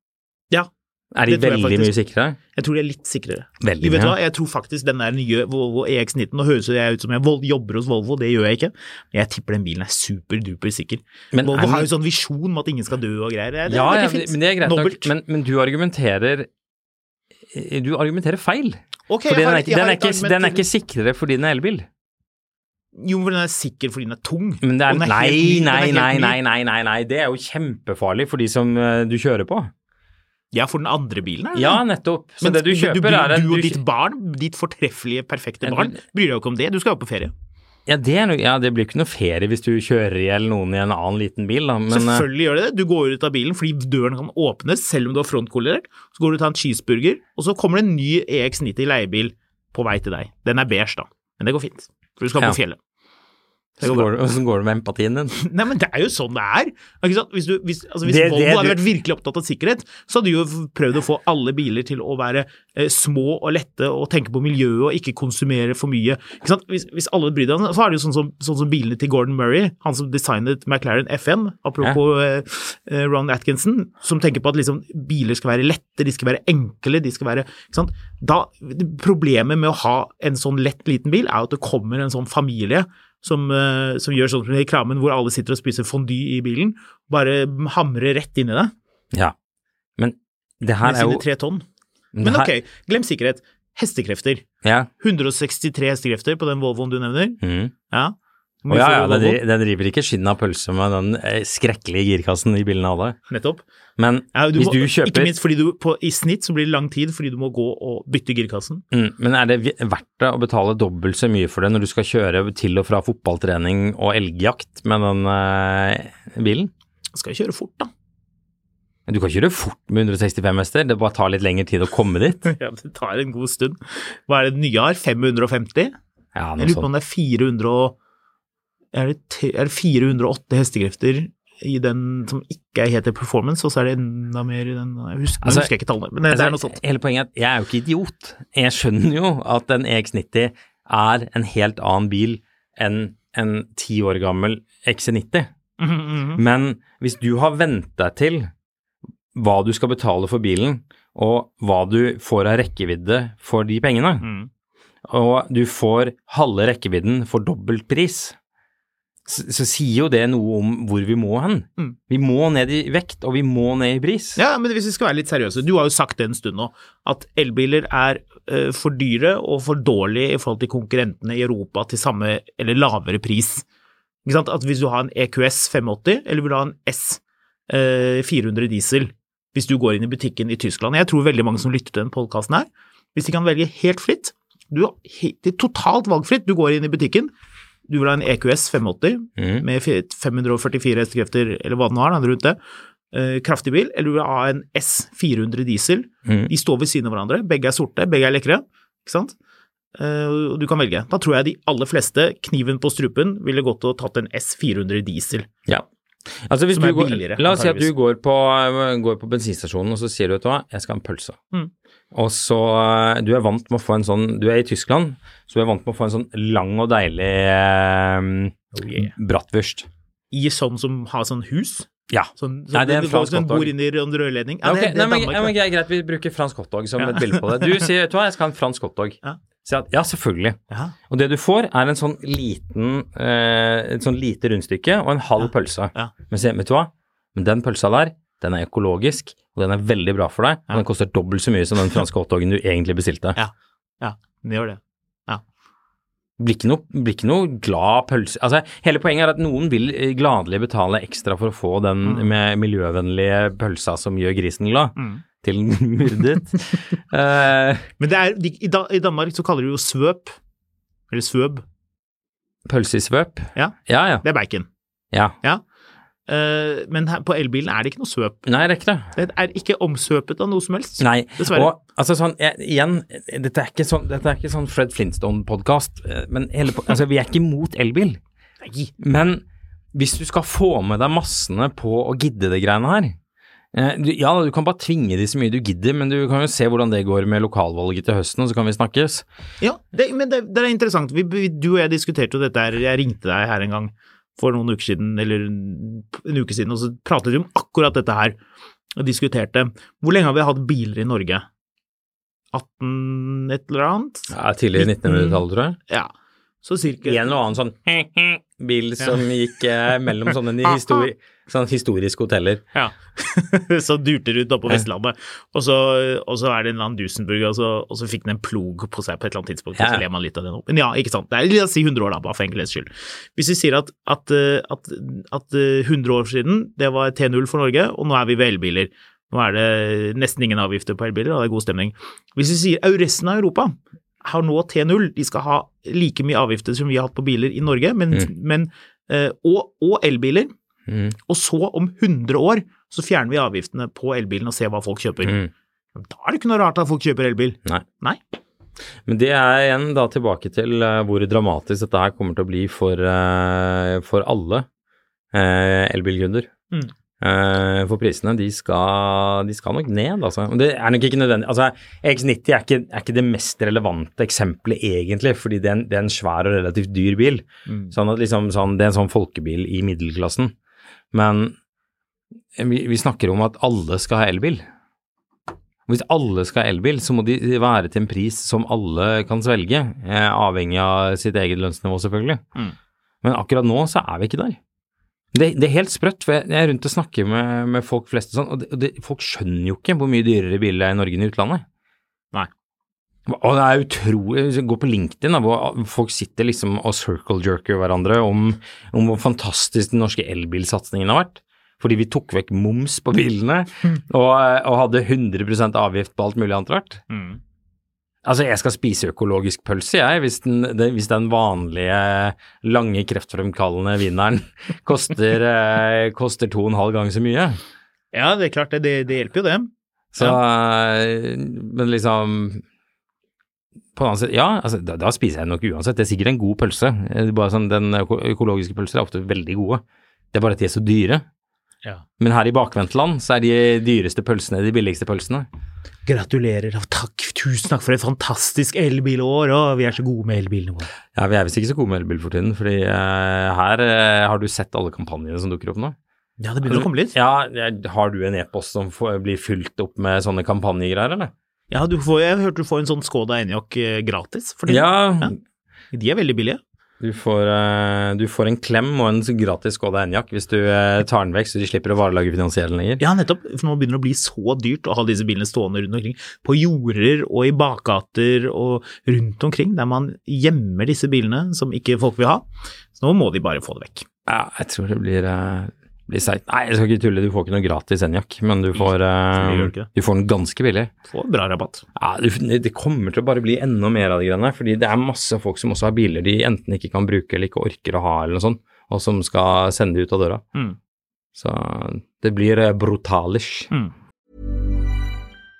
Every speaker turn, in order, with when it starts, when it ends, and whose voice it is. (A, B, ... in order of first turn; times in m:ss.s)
0:01.1-0:02.4 A
0:01.3-0:01.9 B
0:02.5-0:15.1 B
0:03.6-0:04.2 A
0:11.3-0:11.9 A
0:13.7-0:16.5 A
0:17.5-0:21.9 A
0:19.1-0:20.6 B
0:22.9-0:26.4 B
0:24.6-0:29.7 A
0:30.5-0:31.8 B
0:31.5-0:33.8 A
0:32.4-0:37.3 B
0:35.6-0:36.0 A
0:37.9-0:42.2 A
0:41.9-0:52.8 B
0:53.8-0:55.4 A
0:53.8-0:54.1 B
0:55.4-1:28.7 B
0:58.0-0:58.8 A
1:30.0-1:31.2 A
1:30.8-1:31.6 B
1:32.1-1:32.5 A
1:32.2-1:34.4 B
1:34.6-1:34.9 A
1:35.0-1:37.4 B
1:37.4-1:37.7 A
1:37.9-1:39.4 B
1:38.7-1:43.2 A
1:43.3-1:43.6 B
1:44.0-1:45.3 A
1:44.3-1:48.8 B
1:48.9-1:56.7 A
1:57.1-1:57.9 B
1:59.1-2:02.5 A
2:02.5-2:05.9 B
2:06.3-2:06.9 A
2:06.6-2:08.0 B
2:08.9-2:16.8 B
2:15.4-2:15.7 A
2:16.3-2:25.5 A
2:25.8-2:26.4 B
2:26.4-2:28.5 A
2:29.3-2:34.3 A
2:34.2-2:34.5 B
2:35.1-2:38.4 A
2:39.3-2:44.4 A
2:44.4-2:53.6 B
2:54.2-3:07.3 B
3:07.9-3:12.6 B
3:09.4-3:09.6 A
3:13.1-3:19.3 B
3:16.3-3:16.5 A
3:20.0-3:25.5 B
3:26.4-3:31.4 A
3:26.7-3:27.9 B
3:32.1-3:39.9 A
3:38.7-3:39.1 B
3:40.3-3:45.5 B
3:42.1-3:43.7 A
3:44.6-3:50.6 A
3:47.0-3:47.9 B
3:51.1-4:03.4 A
3:55.4-3:56.1 B
4:03.4-4:05.4 B
4:06.4-4:17.9 A
4:15.0-4:15.2 B
4:18.0-4:20.3 B
4:21.1-4:21.6 B
4:22.7-4:24.2 A
4:23.6-4:24.7 B
4:26.3-4:28.4 B
4:28.4-4:29.1 A
4:29.1-4:31.7 B
4:31.0-4:38.2 A
4:38.6-4:38.9 B
4:39.0-4:39.4 A
4:39.9-4:43.2 A
4:43.7-4:49.2 A
4:49.6-4:58.4 B
4:59.0-5:01.4 B
5:02.5-5:06.1 B
5:04.3-5:05.8 A
5:06.6-5:07.2 B
5:07.0-5:12.6 A
5:10.7-5:11.0 B
5:12.7-5:40.5 B
5:19.8-5:20.0 A
5:40.9-5:41.2 A
5:41.2-5:45.4 B
5:45.2-5:45.5 A
5:46.0-5:48.2 B
5:49.1-5:54.7 A
5:55.3-5:56.5 A
5:57.2-6:10.5 A
6:07.7-6:07.9 B
6:11.1-6:11.6 A
6:12.6-6:14.6 A
6:15.9-6:22.4 A
6:23.2-6:24.6 A
6:25.3-6:31.6 A
6:33.3-6:47.0 A
6:47.1-6:47.4 B
6:48.2-6:57.6 A
6:58.1-7:00.4 B
7:00.1-7:02.6 A
7:04.0-7:11.2 A
7:12.2-7:15.5 A
7:16.0-7:20.9 B
7:21.1-7:26.0 A
7:26.4-7:27.1 B
7:26.6-7:31.3 A
7:31.7-7:35.3 B
7:34.7-7:35.4 A
7:35.9-7:36.6 B
7:37.0-7:43.0 A
7:43.0-7:52.4 B
7:53.0-7:54.0 B
7:54.3-8:00.9 A
7:58.7-7:59.9 B
8:01.1-8:01.8 B
8:02.0-8:10.4 A
8:11.3-8:13.7 A